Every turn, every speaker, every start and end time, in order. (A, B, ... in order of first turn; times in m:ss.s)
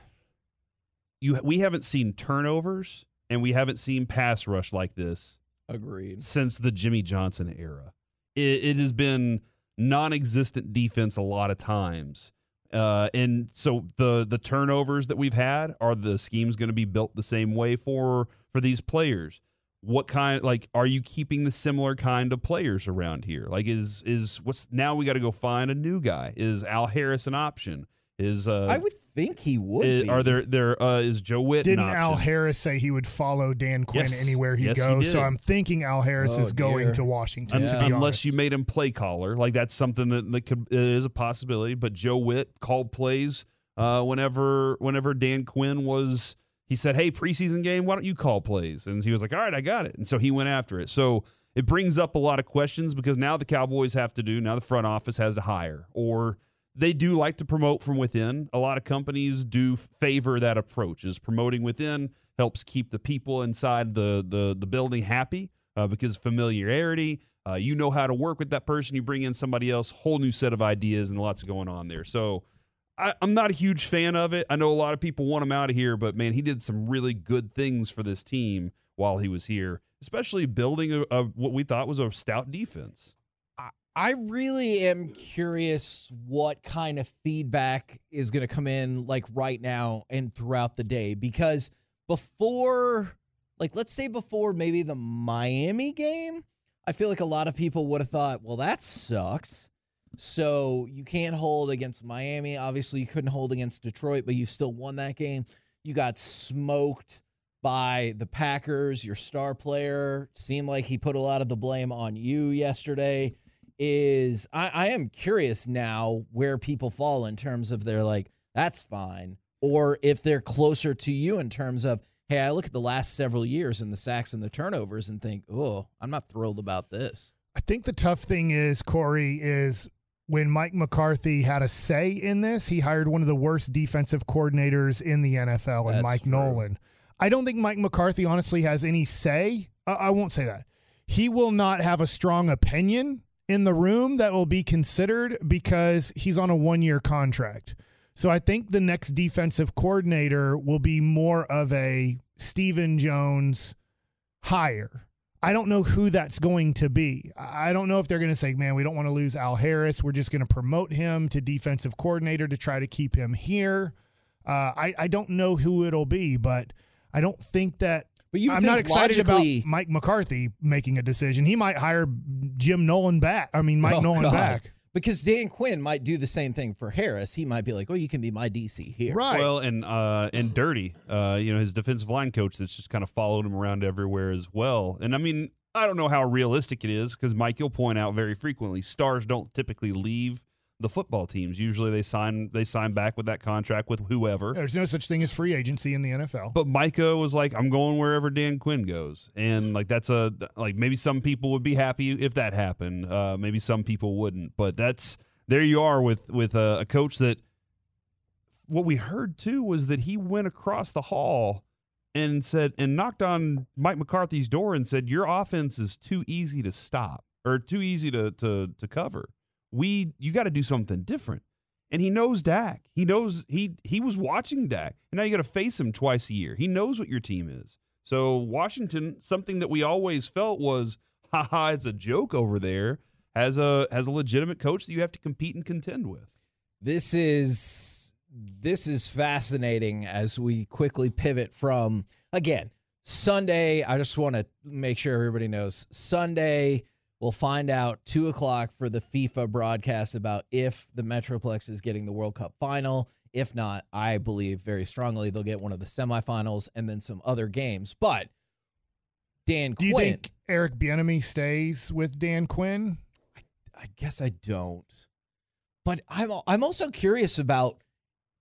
0:01.2-0:05.4 A
0:05.7-0:06.2 B
0:06.2-0:28.8 A
0:28.7-0:30.4 B
0:29.8-0:32.3 A
0:31.6-0:38.3 C
0:33.9-0:35.3 A
0:36.2-0:37.9 B
0:37.5-1:12.4 A
1:13.0-1:23.1 A
1:23.6-2:07.3 B
2:07.5-2:33.8 C
2:15.8-2:16.6 B
2:34.4-2:43.9 C
2:44.4-2:54.7 C
2:48.3-2:49.7 B
2:53.8-2:59.2 B
2:59.1-2:59.5 C
2:59.3-3:14.6 A
3:14.5-3:16.6 C
3:16.5-3:27.4 A
3:28.7-3:56.3 A
3:56.8-4:18.3 B
4:19.4-4:20.2 B
4:19.8-4:23.0 C
4:23.4-4:25.0 B
4:25.8-4:27.8 B